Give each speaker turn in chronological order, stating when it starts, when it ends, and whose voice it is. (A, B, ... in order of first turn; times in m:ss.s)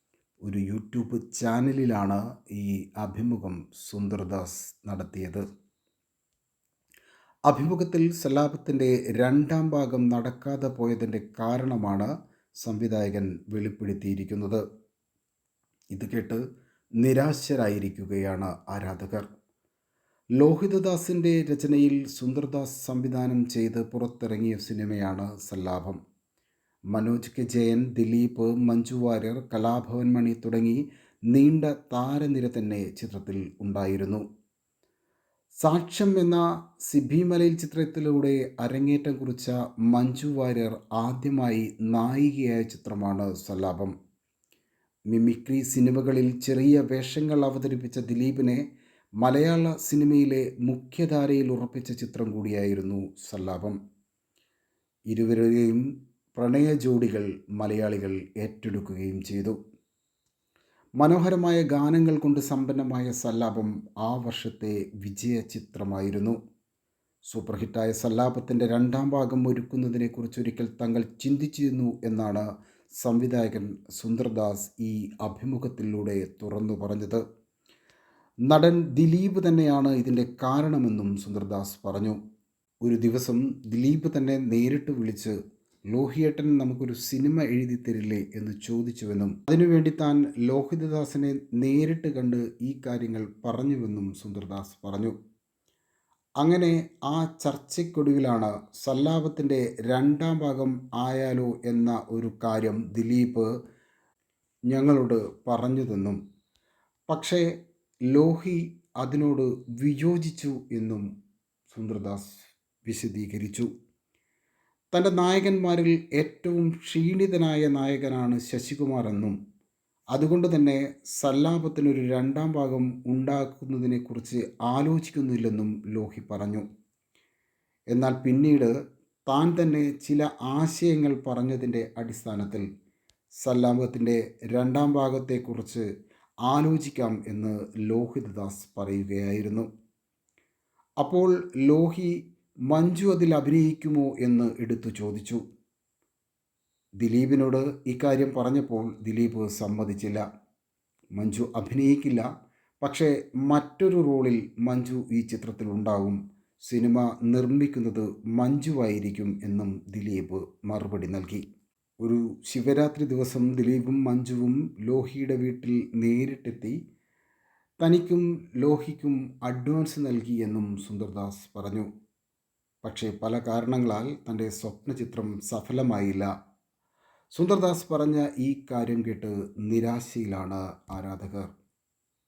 0:00.4-0:05.4 A
0:07.5-0:12.1 A
0:12.6-0:14.6 A
0:15.9-0:16.4 A
0:17.0-0:19.3 A
0:20.4-0:26.0 A
0:26.9-0:34.2 A
0:35.6-0:43.9 A
0:45.1-0:48.6 A
0:49.2-0:53.8 A
0:55.1-0:55.8 A
0:56.4-0:59.6 A
1:01.0-1:06.4 A
1:07.3-1:12.4 A
1:13.0-1:17.2 A
1:18.5-1:22.2 A
1:22.8-1:25.4 A
1:25.9-1:35.1 A
1:36.4-1:43.5 A
1:44.7-1:46.2 A
1:47.1-1:47.5 A
1:48.1-1:51.1 A
1:51.7-1:53.7 A
1:54.9-1:59.4 A
2:00.1-2:06.7 A
2:07.9-2:08.7 A
2:09.3-2:12.7 A
2:13.4-2:15.8 A
2:16.5-2:19.7 A
2:21.0-2:22.2 A
2:22.7-2:25.4 A
2:27.0-2:30.2 A
2:31.2-2:32.2 A
2:32.8-2:41.4 A
2:42.0-2:46.8 A
2:47.8-2:51.9 A
2:52.8-2:56.3 A
2:57.3-3:01.5 A